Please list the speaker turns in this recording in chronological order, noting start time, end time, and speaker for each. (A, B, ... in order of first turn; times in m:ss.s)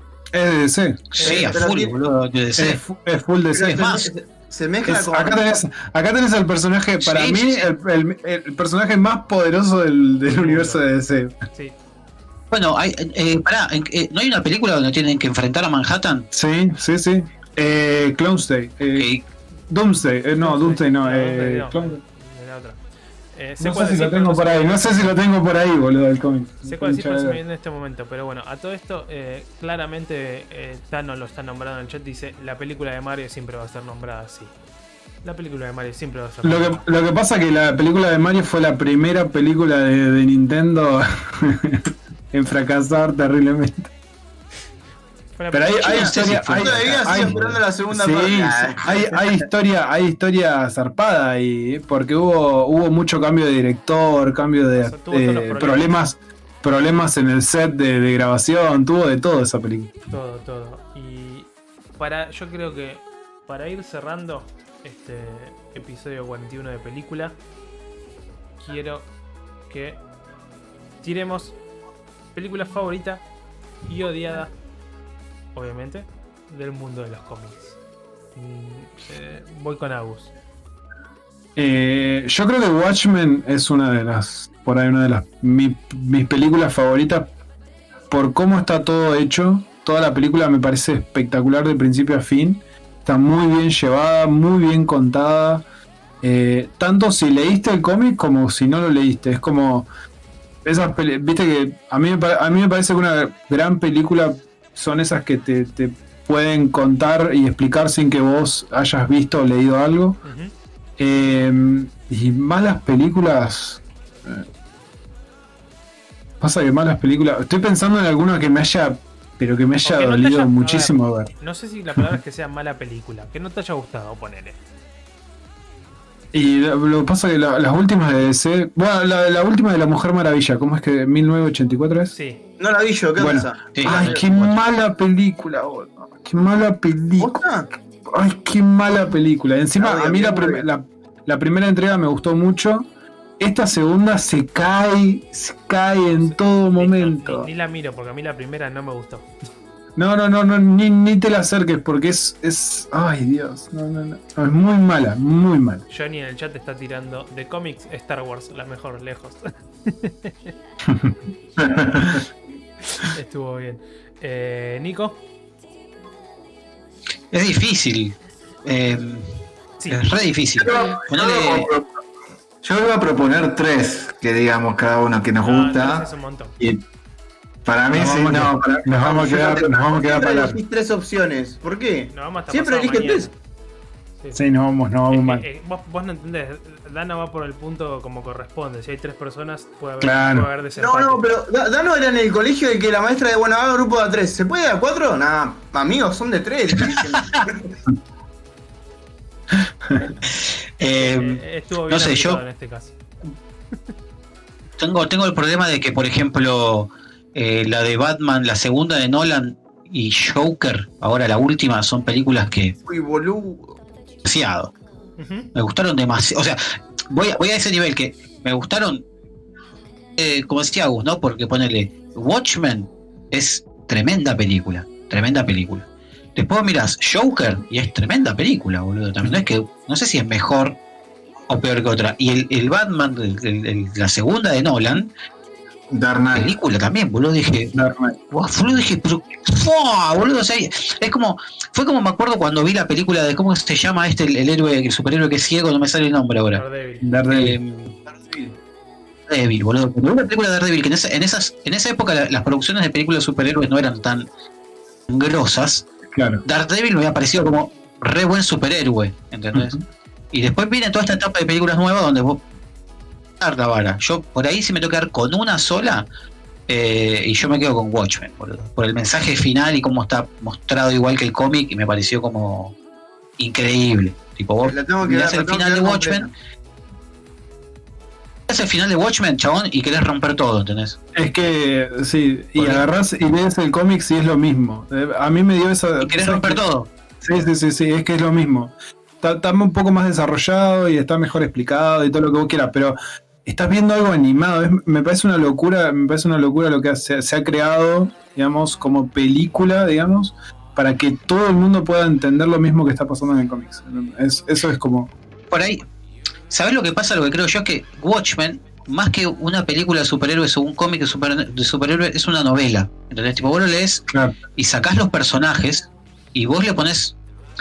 0:00.3-0:01.1 A
0:01.1-0:02.8 B
0:01.2-0:01.6 C
0:01.2-0:01.9 D
0:02.6-0:03.8 A
0:03.5-0:04.1 B
0:03.5-0:05.4 D
0:04.9-0:11.3 A
0:07.0-0:07.6 B
0:10.3-0:10.8 C
0:12.5-0:16.3 B
0:16.3-0:19.1 A
0:18.9-0:19.2 B
0:19.7-0:22.0 A
0:20.4-0:22.8 C
0:23.3-0:25.1 C
0:23.6-0:27.4 A
0:26.7-0:34.5 C
0:35.2-0:36.8 C
0:36.4-0:43.9 A
0:45.4-0:46.1 C
0:45.5-0:59.9 A
0:45.8-0:47.4 B
0:45.8-0:49.2 D
0:54.8-0:56.0 C
1:00.1-1:07.4 C
1:08.6-1:09.1 C
1:09.7-1:10.0 C
1:11.0-1:11.6 C
1:12.3-1:13.2 C
1:13.9-1:14.5 C
1:15.5-1:17.8 C
1:18.3-1:20.3 C
1:21.6-1:27.3 A
1:28.1-1:35.6 A
1:36.2-1:39.9 A
1:40.6-1:50.2 A
1:50.2-1:50.5 C
1:51.0-1:54.4 A
1:56.4-2:01.3 A
1:59.8-2:04.6 C
2:06.3-2:12.1 A
2:12.1-2:12.4 C
2:12.6-2:14.2 D
2:13.2-2:17.4 A
2:13.7-2:14.5 B
2:17.2-2:17.7 D
2:18.1-2:22.8 A
2:19.8-2:20.6 D
2:23.4-2:27.5 A
2:26.2-2:29.3 C
2:30.0-2:35.8 A
2:35.9-2:40.5 C
2:40.9-2:41.1 A
2:41.6-2:42.2 E
2:43.0-2:45.2 C
2:47.3-2:49.3 B
2:49.8-2:50.1 C
2:49.9-2:51.7 B
2:50.6-2:51.9 E
2:52.6-2:56.1 E
2:55.4-2:56.6 C
2:57.6-2:58.9 E
2:57.9-3:00.6 A
2:59.0-3:03.3 D
3:02.1-3:03.3 C
3:04.3-3:05.4 A
3:05.1-3:11.2 C
3:10.0-3:10.5 A
3:10.8-3:17.7 D
3:20.2-3:22.4 B
3:21.0-3:23.0 C
3:24.8-3:32.7 B
3:32.8-3:33.8 D
3:34.2-3:34.7 B
3:35.2-3:35.5 C
3:35.5-3:39.0 B
3:40.2-3:50.8 B
3:51.5-3:55.1 B
3:55.9-3:56.5 E
3:56.3-3:57.7 B
3:57.7-3:58.2 A
3:58.3-4:06.6 B
4:06.5-4:07.1 C
4:07.0-4:07.6 A
4:07.3-4:08.0 B
4:08.1-4:08.5 D
4:09.3-4:14.3 B
4:15.1-4:15.8 B
4:16.1-4:16.4 A
4:16.4-4:19.8 B
4:19.5-4:19.8 A
4:20.3-4:22.4 B
4:23.4-4:26.0 B
4:26.7-4:32.7 B
4:33.4-4:36.3 B
4:34.6-4:36.3 D
4:38.5-4:41.0 B
4:41.1-4:46.6 A
4:42.6-4:42.8 B
4:46.0-4:46.9 B
4:47.2-5:05.1 A
5:05.5-5:05.8 B
5:06.5-5:14.0 B
5:14.6-5:17.1 B